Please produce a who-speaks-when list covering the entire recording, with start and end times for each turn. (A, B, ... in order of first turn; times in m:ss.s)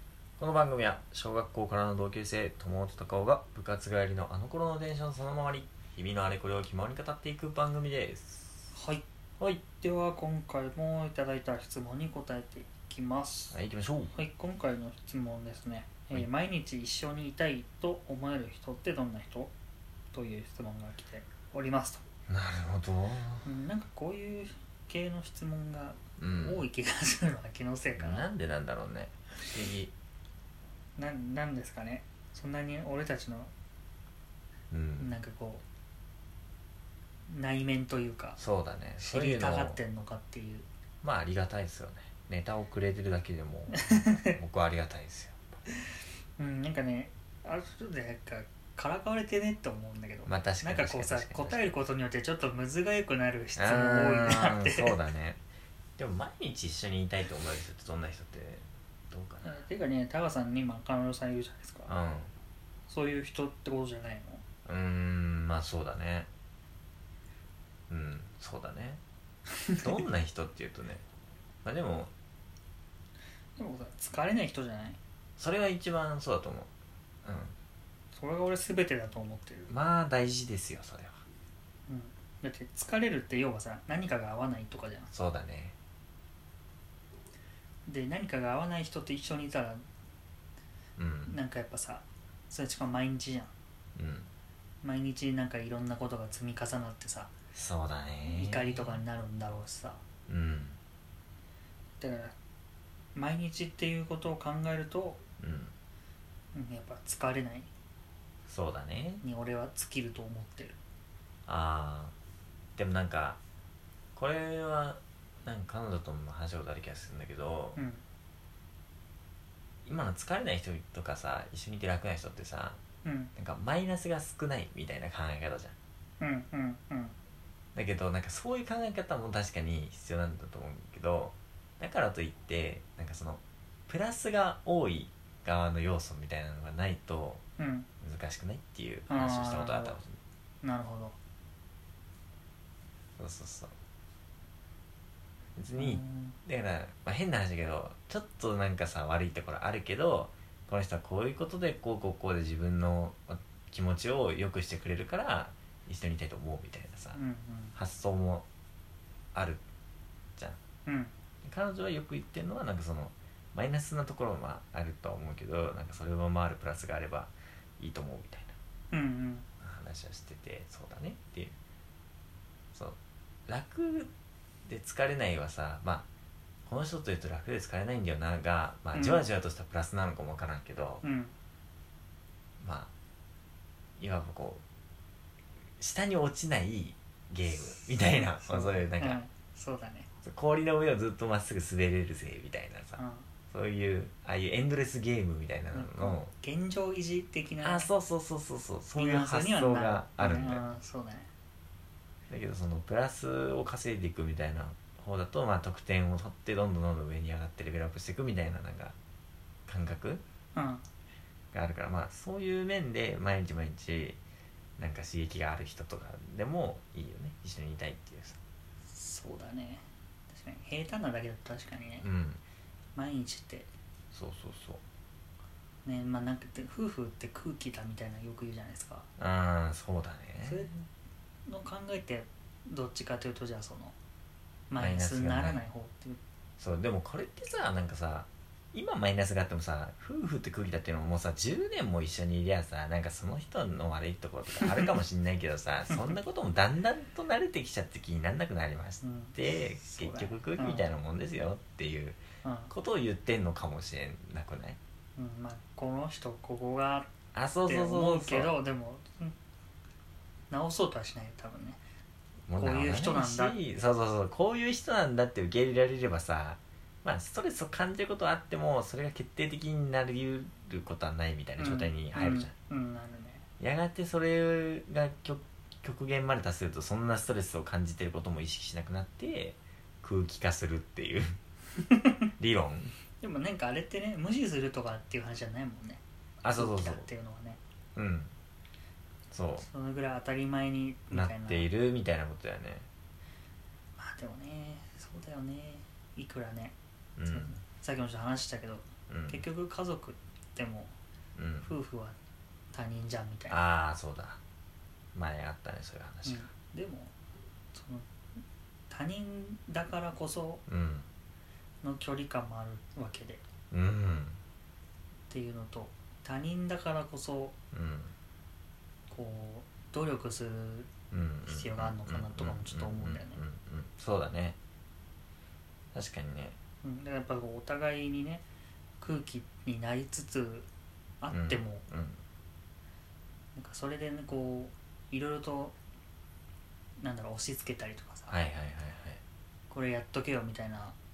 0:00.4-0:08.6 A
0:08.7-0:09.0 B
0:09.4-0:09.7 A
0:09.8-0:13.6 B
0:13.5-0:14.1 A
0:14.1-0:19.5 B
0:20.1-0:22.0 B
0:22.3-0:23.5 A
0:23.4-0:28.3 B
0:26.2-0:26.6 A
0:28.0-0:29.9 A
0:31.0-0:33.5 B
0:34.7-0:35.2 A
0:35.0-0:35.6 B
0:37.3-0:38.4 B
0:38.4-0:39.8 A
0:39.0-0:40.6 B
0:41.0-0:45.5 A
0:43.7-0:44.4 B
0:46.4-0:54.9 B
0:50.3-0:51.7 A
0:53.6-0:55.4 A
0:56.0-0:59.6 A
0:59.4-1:01.9 B
1:01.9-1:02.3 A
1:02.9-1:04.4 B
1:04.7-1:06.3 A
1:07.9-1:09.0 A
1:09.8-1:11.0 A
1:11.6-1:12.1 A
1:13.6-1:15.0 B
1:15.4-1:16.7 A
1:17.2-1:17.6 A
1:18.2-1:19.7 B
1:19.7-1:21.2 A
1:21.9-1:25.1 B
1:25.1-1:25.8 A
1:27.9-1:29.8 B
1:31.0-1:31.4 A
1:31.3-1:33.5 B
1:34.0-1:34.3 A
1:34.8-1:37.3 B
1:37.5-1:39.0 A
1:38.3-1:40.0 B
1:40.3-1:40.8 A
1:42.0-1:42.4 B
1:43.2-1:45.2 B
1:45.4-1:45.7 A
1:46.5-1:47.7 B
1:48.5-1:49.2 A
1:49.2-1:50.8 B
1:51.5-1:52.1 A
1:52.8-1:53.4 A
1:54.2-1:57.8 A
1:57.8-1:58.0 B
1:59.8-2:02.8 A
2:03.0-2:03.3 B
2:03.4-2:05.8 A
2:06.2-2:07.2 B
2:07.8-2:17.4 A
2:17.6-2:17.9 B
2:18.0-2:20.2 A
2:19.1-2:20.0 B
2:20.6-2:21.2 B
2:23.2-2:23.7 A
2:25.6-2:37.2 A
2:25.8-2:26.4 B
2:37.1-2:37.8 B
2:37.8-2:38.5 A
2:39.4-2:39.6 A
2:40.9-2:41.1 B
2:41.4-2:48.6 A
2:48.9-2:49.5 B
2:49.6-2:51.5 A
2:52.7-2:54.1 A
2:54.6-2:56.1 A
2:56.7-3:01.0 A
2:58.9-2:59.2 B
3:01.0-3:01.3 B
3:02.6-3:02.9 A
3:04.0-3:04.6 A
3:05.8-3:09.2 A
3:08.4-3:10.1 B
3:10.2-3:13.0 A
3:13.0-3:13.3 B
3:13.5-3:16.3 A
3:15.7-3:17.9 B
3:17.6-3:20.6 A
3:19.0-3:21.3 B
3:22.3-3:29.0 A
3:29.7-3:30.2 A
3:30.5-3:30.8 B
3:31.5-3:34.2 A
3:34.8-3:38.4 A
3:38.9-3:42.1 B
3:42.0-3:42.4 A
3:43.0-3:43.7 B
3:44.1-3:44.8 A
3:45.8-3:49.1 B
3:49.2-3:50.7 A
3:50.4-3:50.8 B
3:51.5-3:54.0 B
3:54.7-3:56.2 B
3:54.8-3:55.6 A
3:56.6-4:14.8 A
4:04.6-4:04.9 B
4:05.9-4:06.2 B
4:09.0-4:10.9 B
4:12.4-4:12.7 B
4:15.2-4:17.1 B
4:17.3-4:18.6 A
4:17.6-4:19.4 B
4:20.5-4:21.8 B
4:22.5-4:32.5 A
4:22.6-4:23.6 B
4:31.6-4:33.4 B
4:33.6-4:41.4 A
4:42.4-4:42.9 A
4:43.2-4:46.0 B
4:46.4-4:47.1 A
4:46.5-4:47.6 B
4:48.0-4:48.3 A
4:49.3-4:49.7 A
4:49.6-4:51.7 B
4:51.1-4:52.9 A
4:54.0-4:56.8 B
4:57.2-4:57.6 A
4:57.3-5:00.9 B
4:59.1-4:59.5 A
5:01.4-5:01.7 A
5:01.6-5:02.2 B
5:02.7-5:03.6 B
5:03.5-5:04.4 A
5:05.2-5:06.5 A
5:06.2-5:07.1 B
5:07.7-5:08.1 B
5:08.9-5:10.6 B
5:10.7-5:11.1 A
5:11.8-5:13.4 B
5:13.7-5:14.4 A
5:15.3-5:17.6 B
5:17.7-5:18.1 A
5:19.1-5:20.9 B
5:21.1-5:24.6 A
5:21.5-5:23.4 B
5:25.9-5:26.6 A
5:26.8-5:28.4 B
5:29.0-5:30.7 B
5:31.2-5:31.8 B
5:31.3-5:32.2 A
5:33.6-5:35.8 B
5:37.0-5:38.4 B
5:38.3-5:39.2 A
5:39.7-5:41.0 B